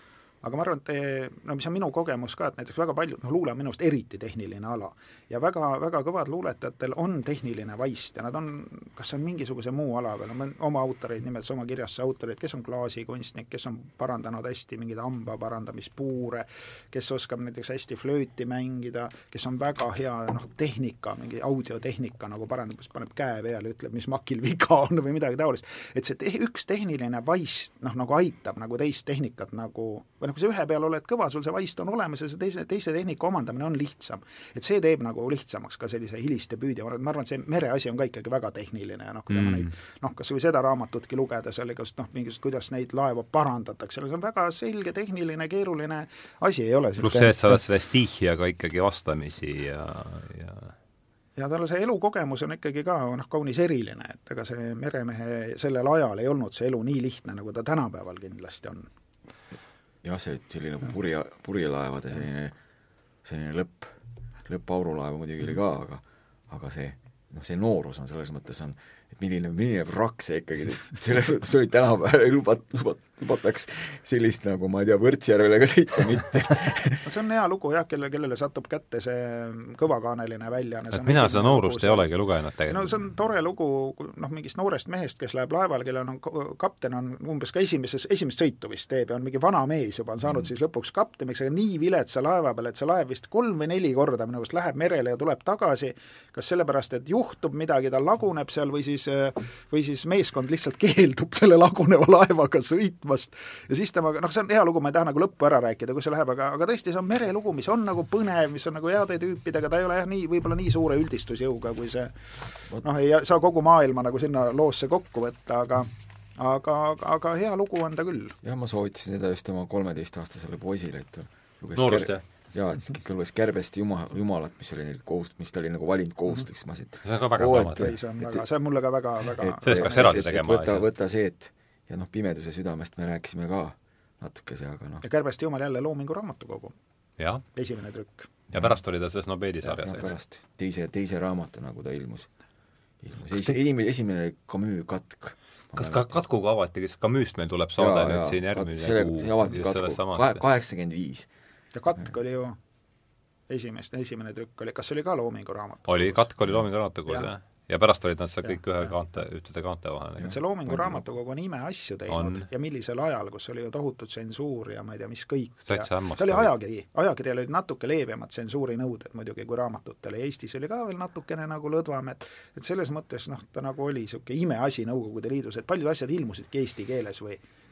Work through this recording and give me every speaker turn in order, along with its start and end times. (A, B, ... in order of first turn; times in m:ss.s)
0:00.4-0:47.4 A
0:39.3-0:39.7 B
0:47.0-0:50.7 B
0:51.4-0:58.9 A
1:00.0-1:02.6 C
1:03.2-1:17.1 C
1:17.0-1:22.1 A
1:20.9-1:23.0 B
1:22.7-1:52.1 A
1:52.8-1:58.4 A
1:58.4-2:08.5 C
2:01.8-2:02.2 B
2:07.0-2:08.0 B
2:07.8-2:10.3 A
2:09.4-2:15.0 C
2:09.6-2:10.9 B
2:15.0-2:16.8 A
2:17.2-2:17.4 B
2:17.5-2:18.3 A
2:18.5-2:20.1 B
2:19.6-2:22.3 C
2:23.0-2:26.2 C
2:25.8-2:30.4 B
2:27.8-2:31.3 C
2:31.7-2:32.6 A
2:33.5-2:36.3 A
2:35.9-2:40.4 B
2:38.4-2:38.9 A
2:40.2-2:41.0 C
2:40.2-2:57.4 A
2:42.1-2:42.5 B
2:45.7-2:46.5 B